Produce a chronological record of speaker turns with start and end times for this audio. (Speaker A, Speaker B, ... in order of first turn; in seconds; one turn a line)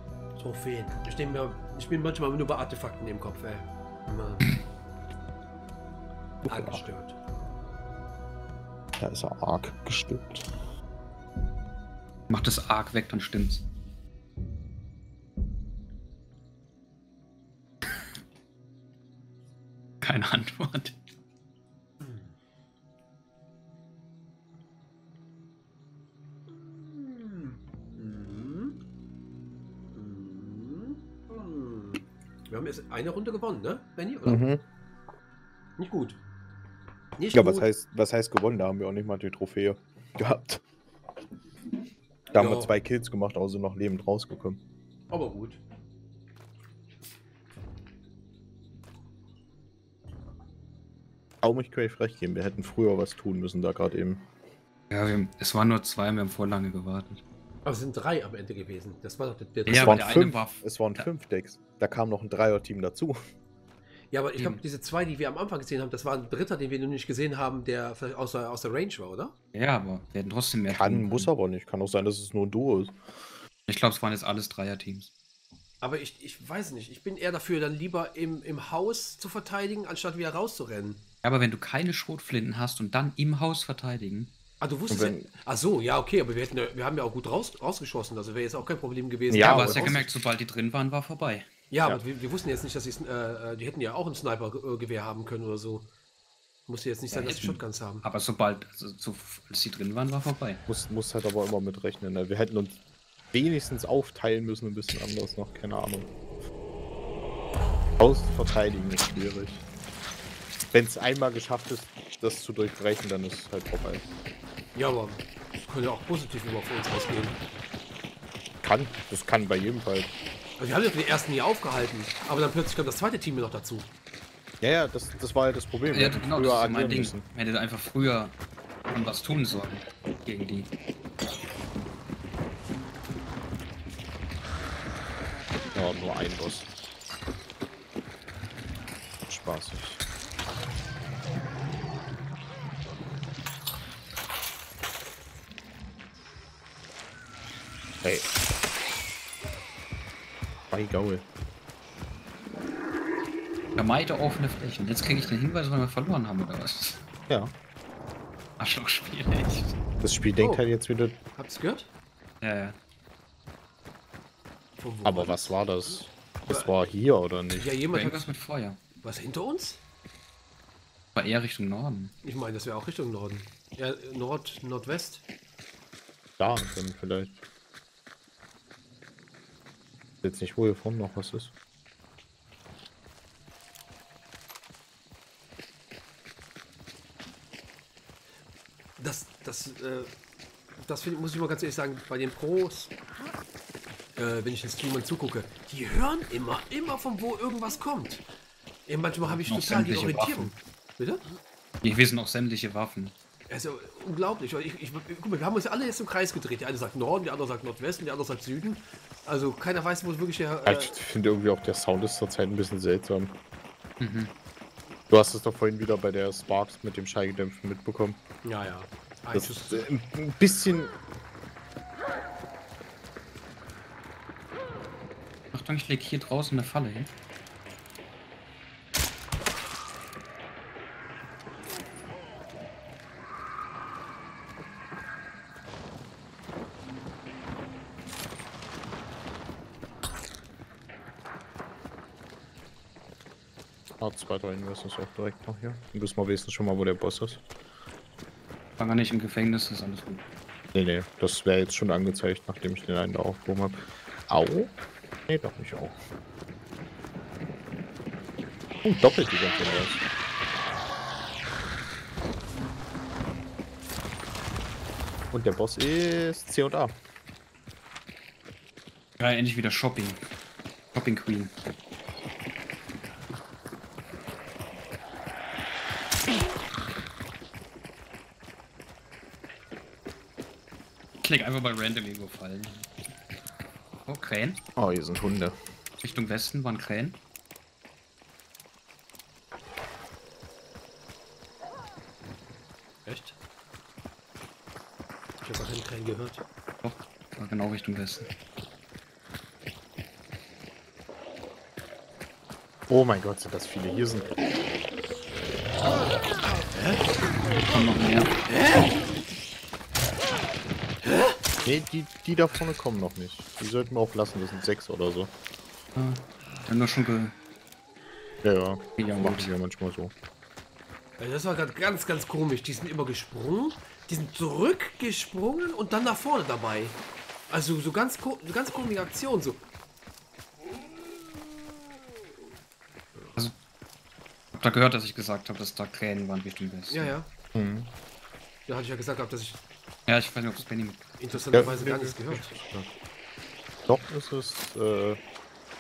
Speaker A: 0.4-4.5
Speaker B: 6.4-6.8
Speaker A: 6.5-7.2
Speaker B: 9.0-10.5
Speaker C: 12.3-13.7
Speaker C: 20.0-21.0
Speaker A: 26.5-28.8
Speaker A: 29.9-34.5
Speaker B: 34.3-34.6
Speaker A: 35.8-36.2
Speaker A: 37.2-37.7
Speaker B: 37.3-40.6
Speaker B: 42.3-44.6
Speaker A: 42.4-42.8
Speaker A: 45.1-45.6
Speaker B: 51.4-54.3
Speaker C: 54.9-57.2
Speaker A: 57.6-60.1
Speaker C: 59.7-61.1
Speaker B: 59.7-63.2
Speaker A: 64.1-69.3
Speaker C: 69.5-71.3
Speaker B: 70.7-73.0
Speaker C: 73.7-75.1
Speaker A: 75.8-81.0
Speaker C: 81.2-84.3
Speaker A: 84.6-90.1
Speaker B: 84.9-85.3
Speaker B: 89.3-90.0
Speaker C: 89.4-91.5
Speaker A: 91.7-95.9
Speaker A: 96.7-98.0
Speaker C: 97.1-100.6
Speaker B: 100.7-102.8
Speaker B: 103.3-106.1
Speaker B: 108.0-109.6
Speaker B: 110.7-114.1
Speaker A: 114.8-117.4
Speaker B: 118.6-120.2
Speaker A: 120.6-123.9
Speaker B: 124.6-127.2
Speaker C: 125.9-128.3
Speaker C: 128.9-130.7
Speaker B: 135.8-136.7
Speaker B: 139.3-140.0
Speaker B: 148.0-148.3
Speaker B: 150.7-151.3
Speaker C: 153.8-157.0
Speaker B: 157.3-157.5
Speaker C: 158.6-159.8
Speaker B: 160.0-161.2
Speaker A: 160.4-160.7
Speaker A: 161.4-161.9
Speaker C: 162.4-162.8
Speaker A: 164.8-165.6
Speaker B: 165.1-167.7
Speaker A: 166.5-166.7
Speaker A: 167.6-168.3
Speaker C: 167.9-168.8
Speaker A: 169.0-169.8
Speaker C: 171.2-172.1
Speaker A: 172.2-175.2
Speaker B: 176.4-177.4
Speaker B: 180.2-181.5
Speaker A: 189.0-190.1
Speaker A: 190.8-192.9
Speaker A: 194.2-198.2
Speaker A: 198.9-201.2
Speaker C: 199.3-200.5
Speaker C: 201.8-203.1
Speaker A: 203.5-210.9
Speaker B: 210.7-213.4
Speaker C: 214.0-214.3
Speaker B: 215.1-218.2
Speaker A: 218.4-219.9
Speaker B: 219.3-220.9
Speaker C: 225.5-227.1
Speaker B: 244.0-247.4
Speaker C: 248.8-250.2
Speaker B: 250.7-254.7
Speaker B: 255.3-256.0
Speaker B: 258.8-260.0
Speaker B: 265.3-266.9
Speaker C: 269.2-270.2
Speaker C: 270.9-271.5
Speaker C: 281.2-282.9
Speaker C: 284.1-284.6
Speaker B: 284.8-285.6
Speaker C: 286.0-287.2
Speaker A: 293.1-293.4
Speaker A: 295.4-296.4
Speaker C: 296.8-298.3
Speaker B: 302.9-304.4
Speaker A: 306.7-307.1
Speaker C: 307.6-308.3
Speaker A: 308.5-308.9
Speaker A: 311.1-311.4
Speaker B: 311.6-315.3
Speaker C: 316.0-317.3
Speaker B: 318.4-320.1
Speaker C: 319.0-319.5
Speaker A: 321.2-327.0
Speaker A: 327.5-329.6
Speaker C: 334.5-337.2
Speaker A: 336.9-337.3
Speaker B: 337.5-337.9
Speaker A: 338.7-339.6
Speaker C: 340.1-342.0
Speaker A: 341.2-342.5
Speaker B: 341.5-342.9
Speaker B: 343.9-345.2